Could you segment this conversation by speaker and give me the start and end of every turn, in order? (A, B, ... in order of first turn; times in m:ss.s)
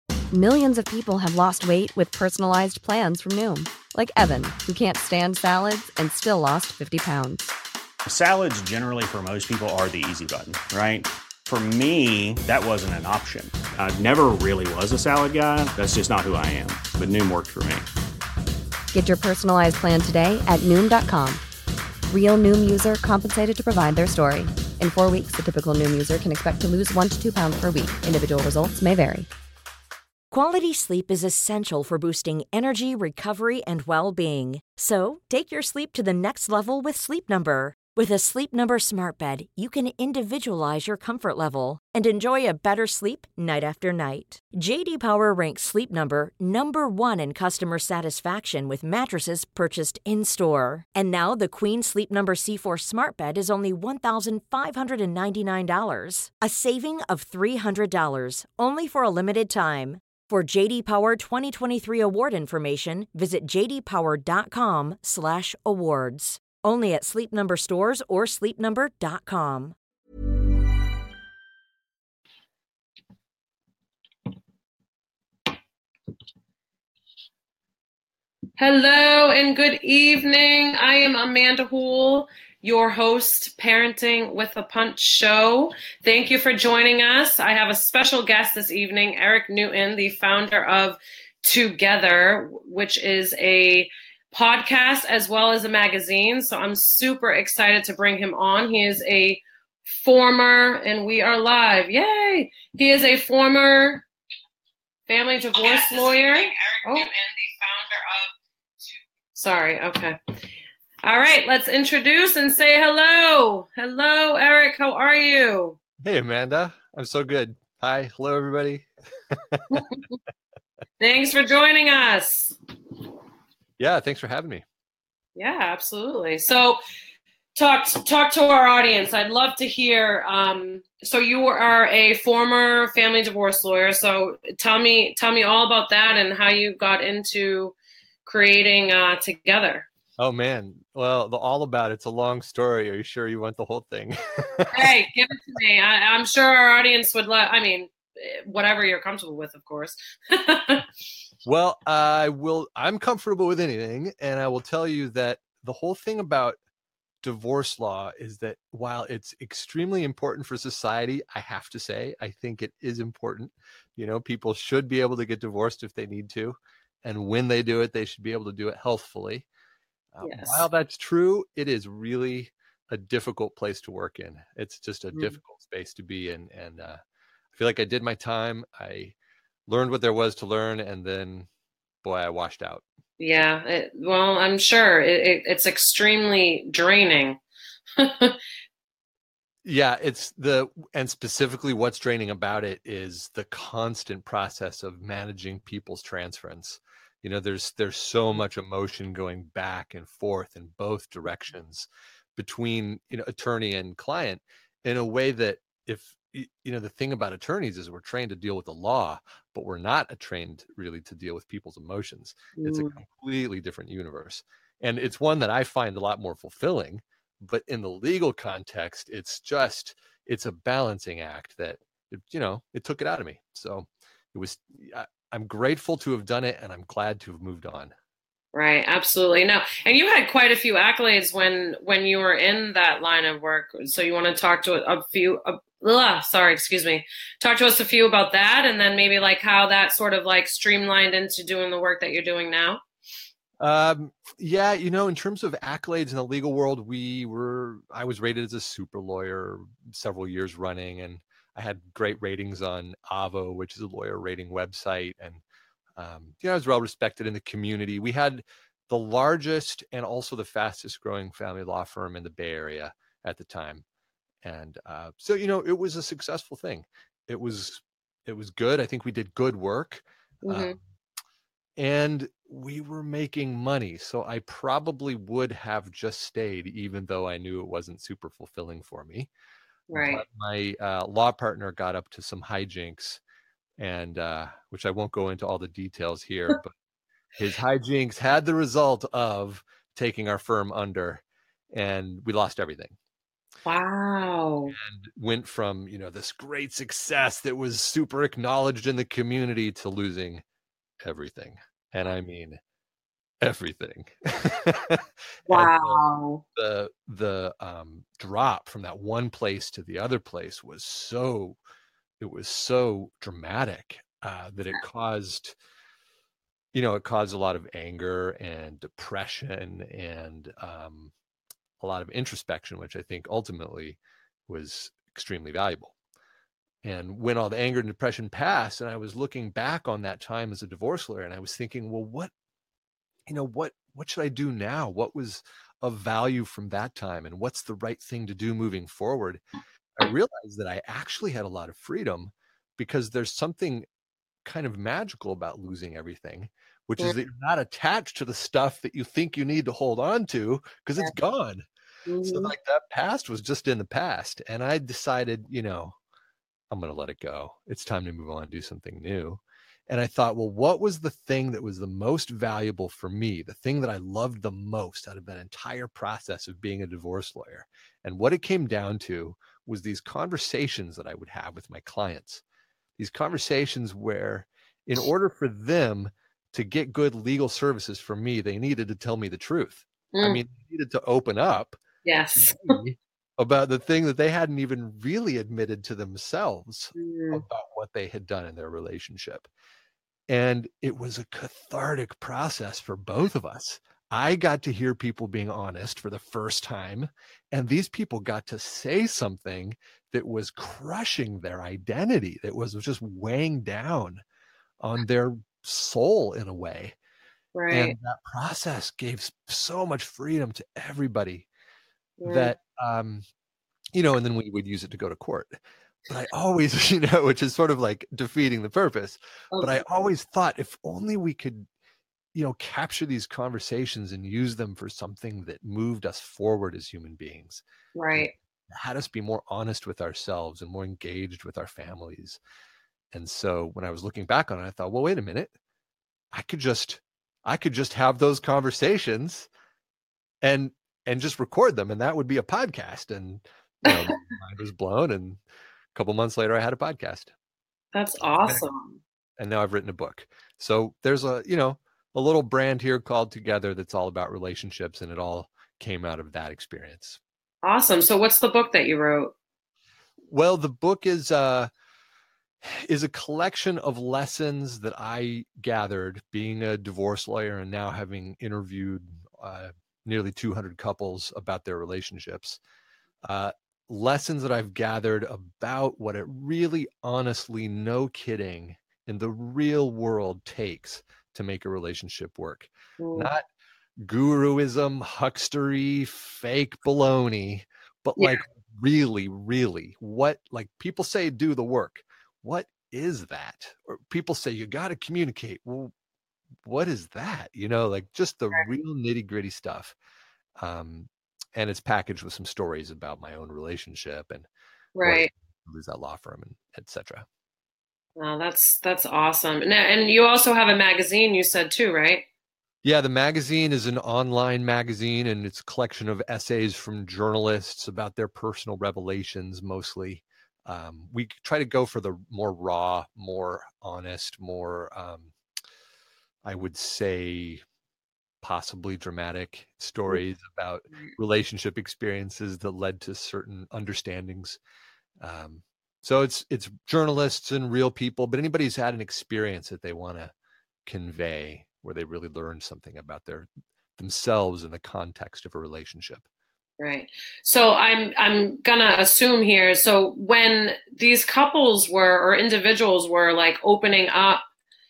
0:00.3-0:07.5 A
0:08.0-0:17.9 B
0:18.9-0:21.4 A
0:22.1-0:29.3 A
0:30.3-1:09.8 C
1:18.6-1:44.0 D
1:45.1-1:47.1 D
1:49.3-1:50.2 D
1:51.0-1:55.8 D
1:56.0-1:59.8 E
1:59.7-2:00.2 D
2:01.0-2:02.6 D
2:03.8-2:04.6 E
2:05.4-2:06.8 D
2:07.6-2:19.9 D
2:20.2-2:24.9 E
2:24.7-2:30.9 D
2:31.4-2:36.6 E
2:37.2-2:49.5 E
2:50.1-2:57.0 E
2:50.2-2:50.6 D
2:55.1-2:55.4 D
2:57.5-2:59.1 E
2:59.7-3:01.5 E
3:02.0-3:02.8 E
3:03.2-3:07.4 D
3:08.0-3:08.4 D
3:09.6-3:47.9 E
3:32.6-3:33.0 D
3:48.5-4:02.8 D
4:03.6-4:15.4 E
4:16.0-4:23.8 E
4:24.4-4:30.8 E
4:30.4-4:30.8 D
4:31.8-4:39.3 E
4:39.9-4:40.2 D
4:39.9-4:43.2 E
4:43.8-4:46.7 E
4:47.4-4:53.0 E
4:53.6-4:54.7 D
4:54.7-5:00.4 E
5:01.0-5:02.6 E
5:03.4-5:06.0 E
5:05.5-5:06.4 D
5:06.5-5:11.6 E
5:12.2-5:15.6 E
5:16.7-5:21.1 E
5:21.8-5:25.9 E
5:26.8-5:32.3 E
5:33.3-5:39.4 E
5:40.0-5:43.8 E
5:44.4-5:51.6 E
5:52.1-5:52.5 D
5:52.2-5:56.0 E
5:56.7-6:12.4 E
6:13.0-6:21.8 E
6:20.1-6:20.4 D
6:22.0-6:22.8 D
6:22.4-6:29.5 E
6:26.9-6:27.4 D
6:30.3-6:44.2 E
6:44.8-6:47.0 E
6:47.5-6:48.0 D
6:47.7-6:51.5 E
6:52.2-6:52.5 D
6:52.2-6:53.2 E
6:53.9-6:55.6 E
6:56.1-7:01.7 E
6:59.5-6:59.8 D
7:02.3-7:07.6 E
7:07.9-7:08.3 D
7:08.1-7:12.4 E
7:13.1-7:15.5 E
7:16.3-7:19.5 E
7:20.4-7:25.4 E
7:23.9-7:24.2 D
7:25.9-7:27.3 E
7:27.9-7:29.0 D
7:28.4-7:28.7 E
7:29.4-7:37.2 E
7:37.6-7:39.3 D
7:40.3-7:41.7 E
7:42.6-7:52.6 E
7:53.2-8:03.5 E
8:03.0-8:03.3 D
8:04.0-8:15.9 E
8:08.2-8:08.4 D
8:16.6-8:19.9 E
8:20.6-8:24.5 E
8:25.0-8:25.3 D
8:25.0-8:27.2 E
8:28.2-8:32.2 D
8:32.8-8:45.3 E
8:46.4-8:47.6 E
8:48.4-8:54.6 E
8:55.2-9:00.3 E
9:00.8-9:06.2 E
9:06.8-9:14.4 D